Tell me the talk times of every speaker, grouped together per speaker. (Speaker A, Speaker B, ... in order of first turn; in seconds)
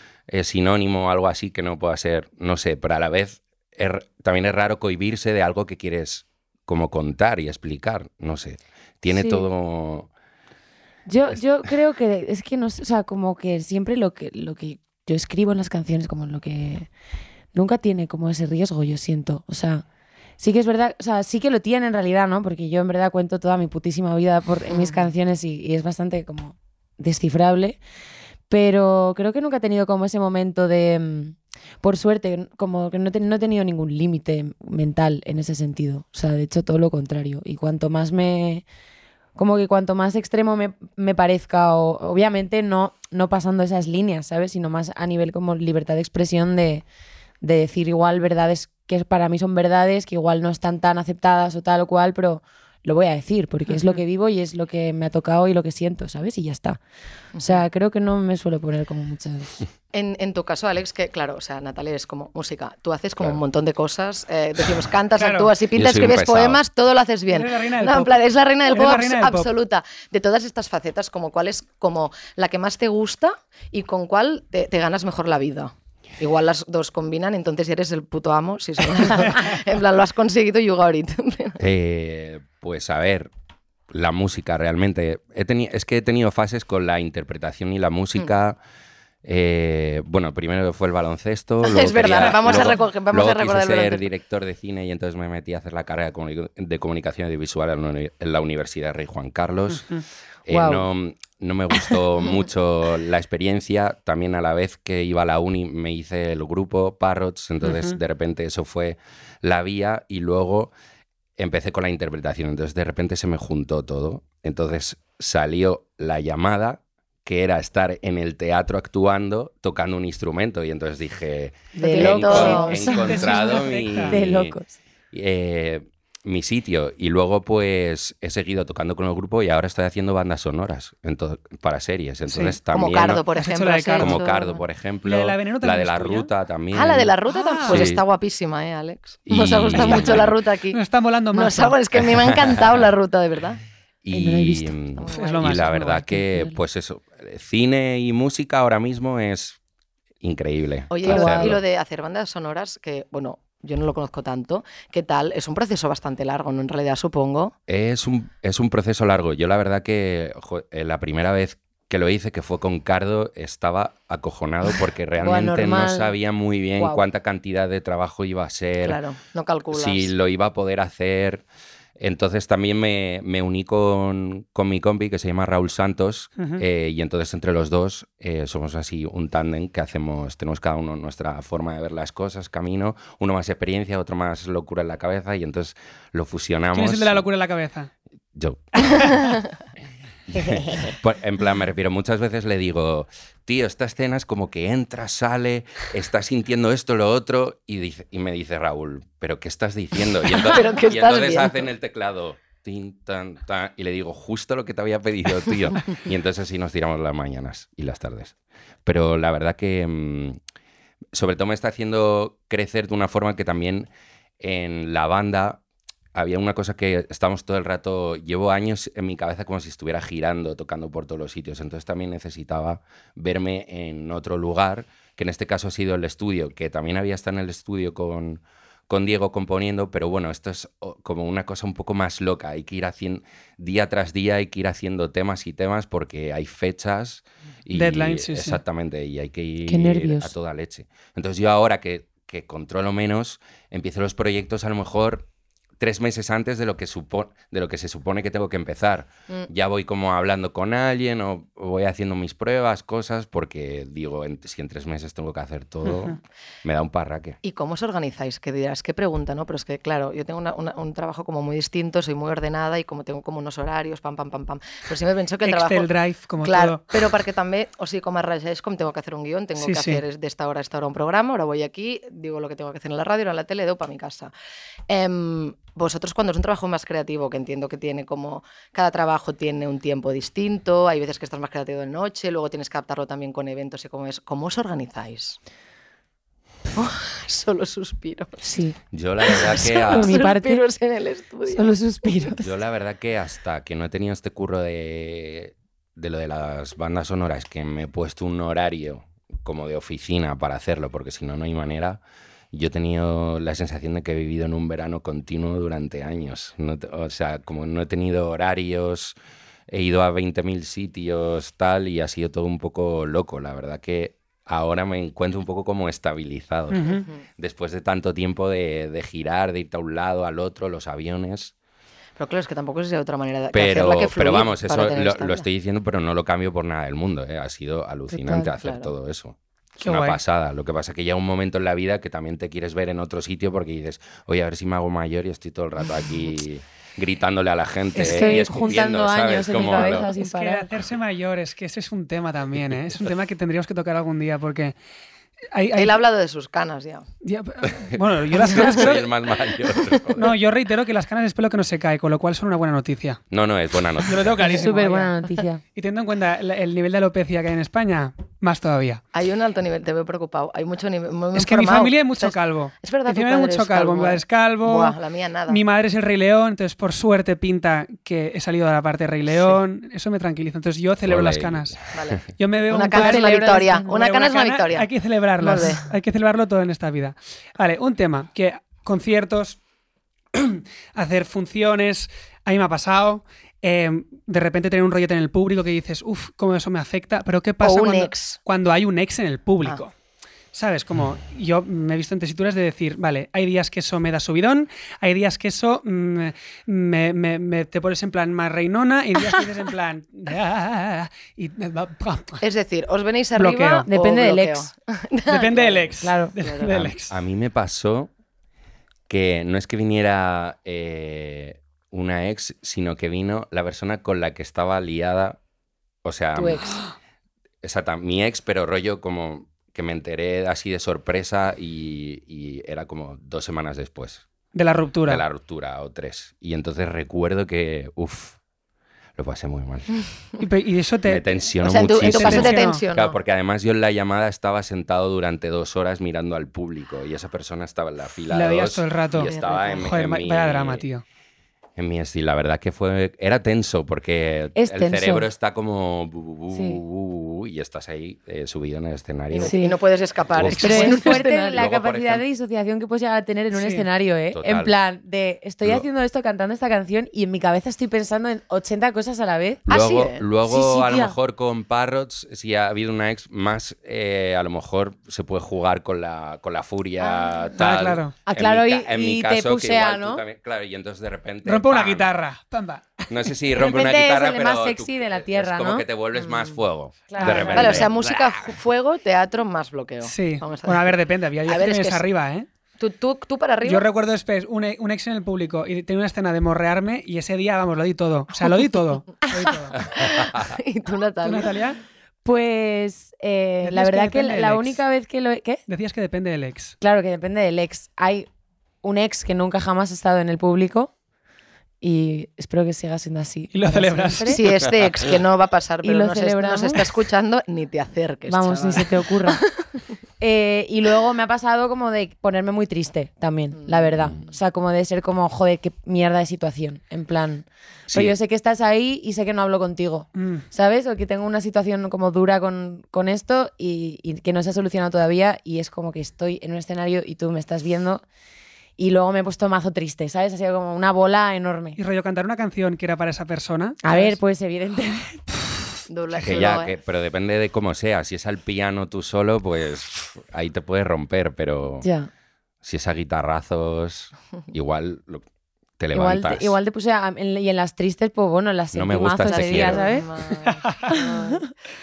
Speaker A: 0.3-10.1, 65.7-66.6, 81.6-83.3, 83.9-88.6, 89.2-110.7, 111.4-124.6, 125.1-133.2, 134.0-137.1, 137.7-138.0, 139.3-140.3, 142.0-142.7, 144.0-149.6, 150.2-151.6, 157.7-169.0, 169.7-171.4, 172.0-187.3, 188.3-189.3, 190.3-210.4, 211.1-215.6, 216.1-245.3, 245.8-257.4, 288.9-290.2, 292.4-302.0, 302.5-309.2, 309.7-321.5, 323.5-340.1, 347.8-350.4, 353.3-354.4, 371.1-371.8, 406.7-408.1, 409.1-415.4, 416.0-416.8, 417.6-424.2, 425.1-428.4, 429.2-430.0, 431.1-440.9, 441.8-449.6, 450.3-452.2, 454.3-454.7, 459.7-472.1, 473.1-478.6, 490.0-490.5, 517.9-518.1, 536.2-541.9, 542.6-545.3, 545.8-546.6, 548.7-549.9
Speaker B: 9.1-9.4, 11.1-16.9, 17.5-19.9, 20.4-27.8, 28.5-38.6, 39.4-46.9, 47.4-56.8, 57.4-59.6, 100.5-100.8, 121.8-123.4, 124.0-124.8, 144.1-144.9, 145.6-146.6, 151.1-151.6, 165.2-166.2, 166.8-167.0, 190.4-190.9, 239.7-240.3, 288.4-288.8, 289.9-290.6, 291.5-292.5, 328.1-328.5, 338.0-340.7, 354.5-355.6, 372.9-373.9, 403.9-404.7, 406.0-406.3, 444.6-445.3, 446.5-446.8, 449.4-449.8, 450.6-459.6, 460.4-461.1, 468.3-470.2, 473.5-475.9, 477.1-477.9, 492.2-495.6, 496.8-498.3, 498.8-500.9, 501.8-504.4, 505.8-506.9, 508.3-509.4, 510.2-528.0, 528.8-531.8, 533.8-535.2, 541.8-542.1, 545.9-550.1, 550.9-551.5
Speaker C: 24.7-25.1, 57.4-57.6, 59.9-81.6, 91.6-94.1, 121.8-123.3, 132.7-134.6, 136.7-140.8, 141.3-143.6, 145.0-145.7, 150.9-157.5, 168.8-170.1, 200.4-201.7, 257.4-265.9, 266.4-274.3, 274.9-285.4, 286.8-288.4, 289.2-292.1, 322.2-325.4, 328.6-328.9, 345.8-347.1, 354.5-355.1, 359.1-365.6, 369.3-369.6, 371.9-375.8, 387.6-388.4, 402.4-406.8, 416.4-416.7, 431.6-433.2, 439.2-439.9, 449.3-451.6, 459.7-460.2, 477.5-482.1, 482.8-483.9, 489.8-491.6, 504.3-509.6, 513.6-514.2, 535.9-536.8, 549.3-551.5
Speaker D: 65.2-65.5, 67.3-68.2, 68.7-69.5, 92.0-92.8, 99.7-100.0, 107.6-108.0, 122.7-124.2, 133.4-134.2, 135.1-136.3, 137.3-137.9, 139.8-141.8, 145.1-145.8, 186.7-187.9, 188.9-189.2, 237.7-238.6, 255.9-256.2, 265.4-266.8, 269.6-270.0, 316.7-317.1, 329.8-330.2, 338.0-338.4, 339.7-344.8, 345.5-346.0, 347.2-349.1, 350.1-353.2, 354.0-355.1, 355.7-359.0, 361.4-364.9, 365.5-371.8, 372.4-379.6, 380.3-389.9, 390.5-402.4, 403.4-403.9, 405.3-407.1, 424.5-425.2, 430.4-431.4, 432.0-432.8, 438.3-441.0, 453.5-453.9, 467.6-468.1, 471.4-473.1, 477.2-477.8, 480.0-482.5, 483.6-489.8, 491.2-491.8, 493.6-494.8, 495.7-496.8, 503.5-504.4, 520.2-520.4, 531.8-534.2